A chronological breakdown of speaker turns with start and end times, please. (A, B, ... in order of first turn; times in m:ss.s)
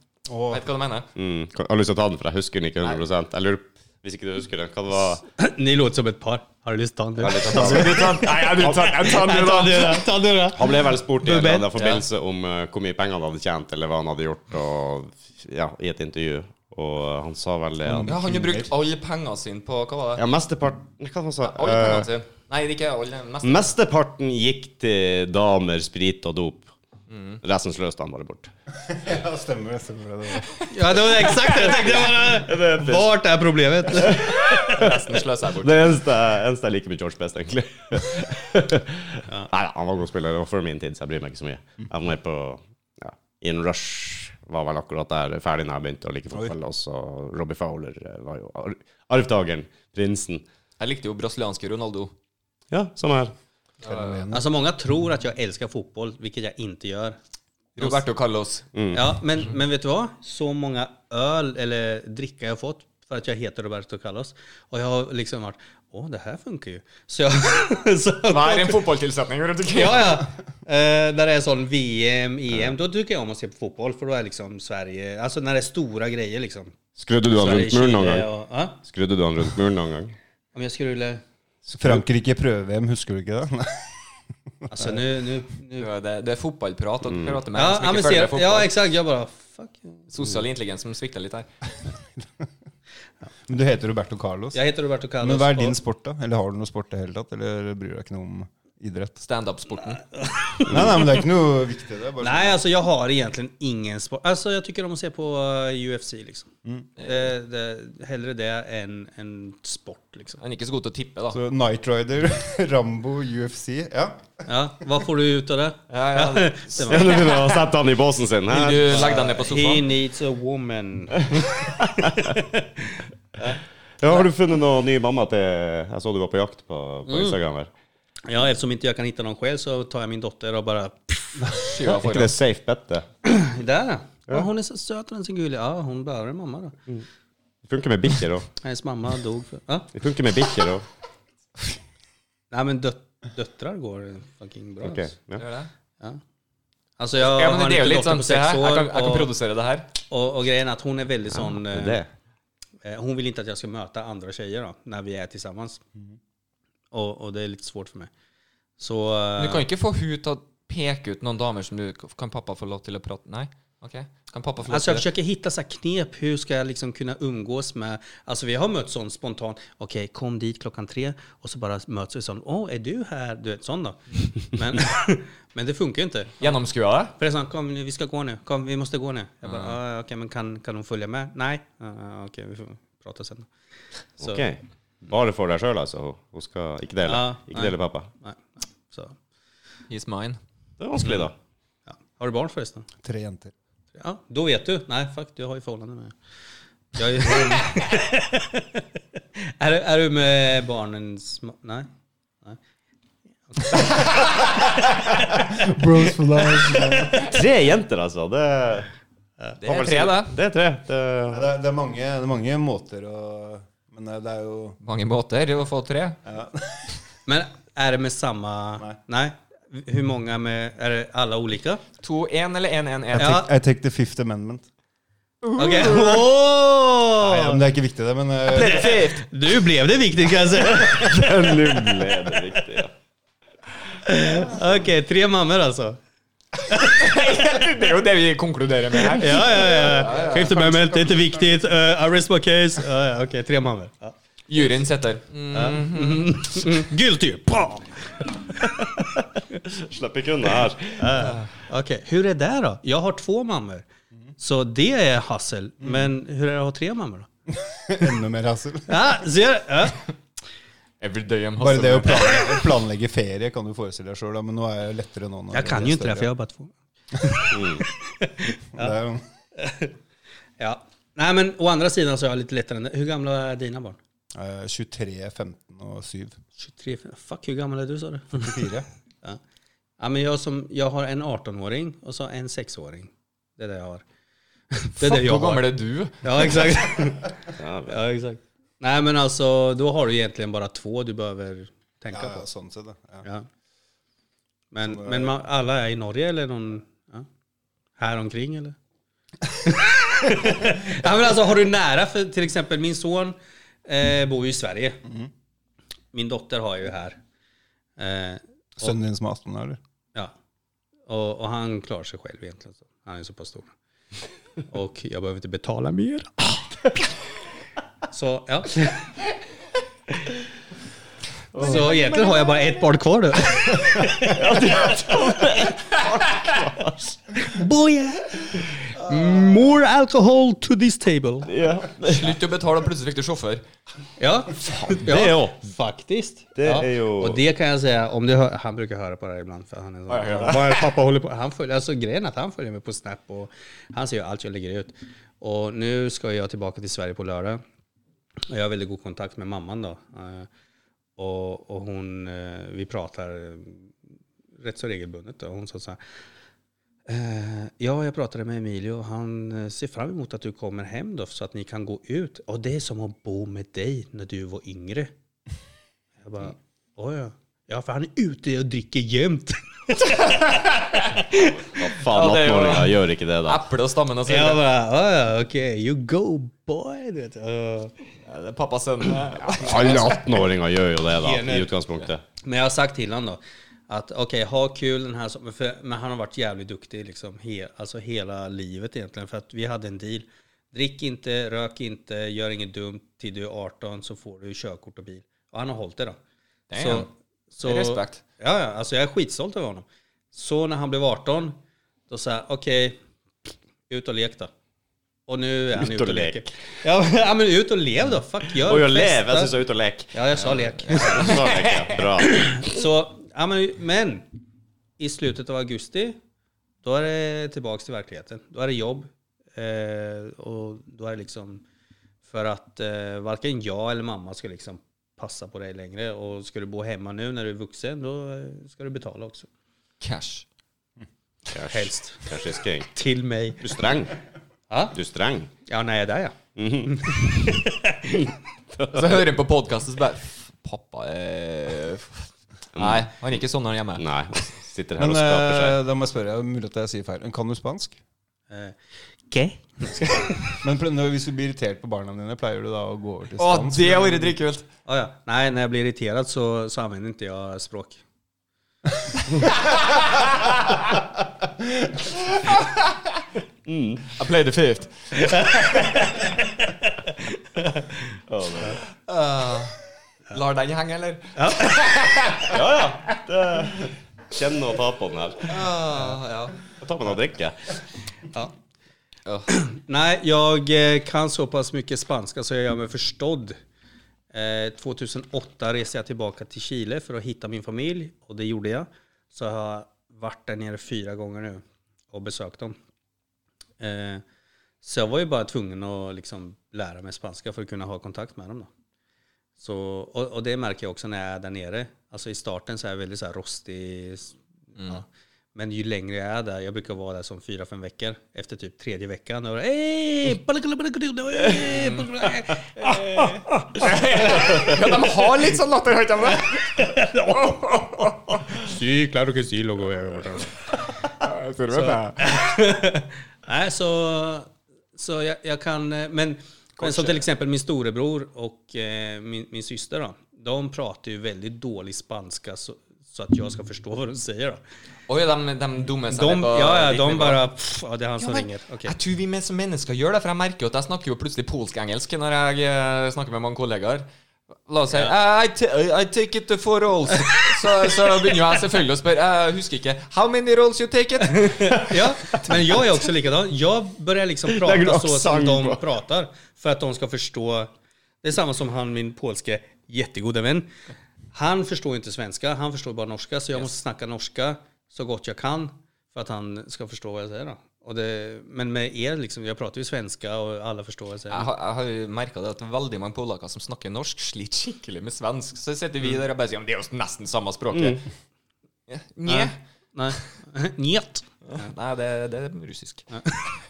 0:00.3-0:00.6 A
0:00.5-0:01.1 B
0:01.2-0:05.2 C
0:05.4-0:11.7 D
0:07.2-0:08.8 C
0:07.4-0:10.1 B
0:10.5-0:18.1 C
0:11.8-0:12.0 B
0:17.8-0:18.7 A
0:18.0-0:20.2 B
0:20.2-0:22.1 C
0:21.4-0:23.7 B
0:23.4-0:26.7 C
0:27.1-0:27.4 B
0:27.4-0:28.5 C
0:28.8-0:30.6 A
0:30.7-0:34.6 D
0:31.3-0:32.2 B
0:31.6-0:33.1 C
0:33.9-0:50.4 C
0:34.2-0:36.0 B
0:50.8-0:52.1 B
0:52.7-0:53.3 C
0:53.8-0:54.5 A
0:53.9-0:54.2 B
0:54.3-0:57.2 D
0:57.8-0:58.7 B
0:58.7-0:59.0 C
0:58.9-1:08.8 D
1:08.3-1:10.3 B
1:09.7-1:16.8 D
1:17.0-1:18.3 C
1:17.3-1:18.8 D
1:18.8-1:20.2 C
1:20.6-1:21.2 D
1:21.6-1:22.0 C
1:21.7-1:24.1 A
1:24.7-1:25.9 D
1:25.8-1:28.7 B
1:27.0-1:27.4 C
1:27.5-1:30.1 D
1:30.1-1:31.5 B
1:32.2-1:32.5 A
1:33.5-1:34.6 A
1:34.5-1:35.8 D
1:35.2-1:39.2 A
1:39.2-1:40.0 B
1:40.1-1:41.2 D
1:40.7-1:42.6 A
1:42.2-1:46.5 D
1:47.0-1:47.2 B
1:47.0-1:50.4 D
1:50.4-1:51.4 B
1:51.3-1:54.4 A
1:54.5-1:57.4 D
1:55.9-1:57.4 B
1:56.8-1:59.2 C
1:58.5-1:59.9 B
1:58.9-2:02.7 D
2:03.4-2:04.3 D
2:04.0-2:07.7 C
2:07.1-2:07.4 D
2:08.3-2:11.8 D
2:11.5-2:12.4 B
2:11.9-2:13.1 C
2:13.2-2:16.8 D
2:17.7-2:18.5 C
2:18.6-2:19.9 D
2:19.9-2:20.8 C
2:22.5-2:25.1 D
2:24.8-2:25.4 C
2:25.4-2:25.7 B
2:27.0-2:29.3 D
2:27.2-2:29.9 B
2:30.1-2:32.0 D
2:31.5-2:32.1 C
2:32.8-2:35.8 D
2:36.9-2:38.1 D
2:38.8-2:39.6 D
2:39.4-2:45.0 B
2:44.7-2:56.5 D
2:56.4-2:57.1 B
2:57.2-3:03.5 D
2:59.4-2:59.8 B
3:04.2-3:08.1 C
3:07.1-3:09.2 D
3:09.9-3:10.4 B
3:10.8-3:11.3 C
3:11.9-3:12.9 D
3:13.0-3:13.5 A
3:14.0-3:16.2 D
3:17.0-3:18.8 D
3:19.4-3:21.9 D
3:23.5-3:25.4 D
3:25.3-3:27.3 A
3:26.7-3:27.2 D
3:27.2-3:28.9 C
3:29.6-3:30.3 B
3:29.6-3:31.4 C
3:31.3-3:34.8 A
3:34.8-3:36.2 B
3:36.2-3:36.9 A
3:37.3-3:41.8 D
3:42.0-3:43.4 B
3:43.1-3:44.7 A
3:43.1-3:43.5 D
3:45.4-3:46.2 B
3:45.6-3:47.6 D
3:47.2-3:49.1 A
3:48.5-3:49.3 B
3:48.9-3:52.1 D
3:50.7-3:52.9 C
3:54.0-3:56.0 D
3:56.7-3:57.0 D
3:56.8-4:01.0 B
3:59.1-4:04.1 D
4:04.5-4:06.7 B
4:05.5-4:09.3 D
4:09.6-4:11.2 C
4:11.0-4:13.9 D
4:11.2-4:11.4 B
4:14.4-4:17.3 D
4:15.8-4:16.1 A
4:17.5-4:19.1 A
4:18.9-4:20.0 D
4:21.0-4:22.6 B
4:21.6-4:26.3 A
4:25.5-4:29.0 D
4:27.5-4:27.8 C
4:28.7-4:29.2 A
4:29.6-4:29.9 D
4:30.6-4:34.0 D
4:34.3-4:36.4 A
4:36.6-4:38.7 D
4:38.3-4:38.9 A
4:40.0-4:44.0 D
4:44.7-4:45.6 D
4:45.0-4:46.8 B
4:46.2-4:47.4 D
4:47.5-4:48.0 C
4:47.9-4:52.4 D
4:52.1-4:53.2 A
4:54.7-4:57.3 D
4:54.8-4:55.3 A
4:58.0-4:58.8 D
4:59.5-5:05.0 D
5:06.1-5:07.2 D
5:08.0-5:08.9 D
5:08.8-5:09.8 A
5:11.1-5:13.7 D
5:14.7-5:17.0 D
5:18.1-5:19.1 D
5:21.5-5:22.6 C
5:21.6-5:24.6 D
5:24.0-5:27.1 C
5:27.4-5:31.5 D
5:31.4-5:32.4 C
5:32.0-5:33.6 B
5:34.2-5:47.6 D
5:34.7-5:35.5 C
5:36.6-5:37.4 C
5:40.1-5:40.8 B
5:48.5-5:50.5 D
5:51.2-5:53.9 D
5:54.6-5:56.0 D
5:57.1-6:05.1 D
6:06.2-6:10.5 D
6:10.3-6:11.1 B
6:11.1-6:11.6 D
6:11.3-6:13.6 C
6:12.0-6:14.6 B
6:14.3-6:18.0 D
6:18.3-6:20.5 B
6:19.5-6:22.2 C
6:21.2-6:21.7 D
6:22.4-6:36.2 D
6:36.7-6:37.1 B
6:36.8-6:43.0 D
6:37.6-6:38.2 B
6:43.9-6:44.5 D
6:45.3-6:49.5 D
6:45.7-6:46.5 C
6:48.6-6:52.7 C
6:50.1-6:51.4 D
6:50.9-6:52.0 B
6:52.2-6:54.3 D
6:55.0-6:56.2 D
6:56.8-7:01.6 D
7:02.2-7:09.5 D
7:10.0-7:10.4 B
7:11.5-7:12.9 C
7:11.6-7:13.6 D
7:13.6-7:14.2 C
7:14.7-7:15.0 D
7:14.9-7:15.5 C
7:15.7-7:18.2 D
7:16.6-7:17.4 C
7:18.7-7:19.3 C
7:18.9-7:24.4 B
7:22.8-7:23.1 C
7:24.0-7:25.8 C
7:25.0-7:28.0 A
7:28.5-7:28.8 D
7:29.3-7:30.6 D
7:30.6-7:34.4 A
7:33.4-7:34.7 B
7:34.9-7:38.0 D
7:43.7-7:44.1 C
7:44.1-7:46.0 B
7:45.2-7:48.0 D
7:48.3-7:48.8 C
7:49.1-7:49.8 B
7:50.3-7:52.6 B
7:51.4-7:51.8 D
7:52.5-7:55.5 C
7:55.5-7:56.6 B
7:56.8-7:57.7 C
7:59.2-7:59.5 B
7:59.5-8:03.6 D
8:04.3-8:12.8 D
8:13.8-8:14.2 D
8:14.8-8:18.7 D
8:19.6-8:35.4 D
8:31.5-8:32.1 B
8:32.8-8:38.4 B
8:36.7-8:40.6 D
8:41.1-8:42.2 B
8:41.7-8:54.6 D
8:46.8-8:47.2 B
8:55.1-8:57.4 B
8:56.1-8:59.0 D
8:58.2-9:04.1 B
9:04.6-9:12.9 B
9:07.3-9:07.6 D
9:11.4-9:17.7 D
9:14.5-9:15.8 C
9:18.2-9:20.7 D
9:21.3-9:31.5 D
9:31.3-9:38.0 B
9:37.7-9:38.0 C
9:38.9-9:39.6 B
9:39.3-9:41.7 D
9:41.5-9:43.1 B
9:43.1-9:43.5 D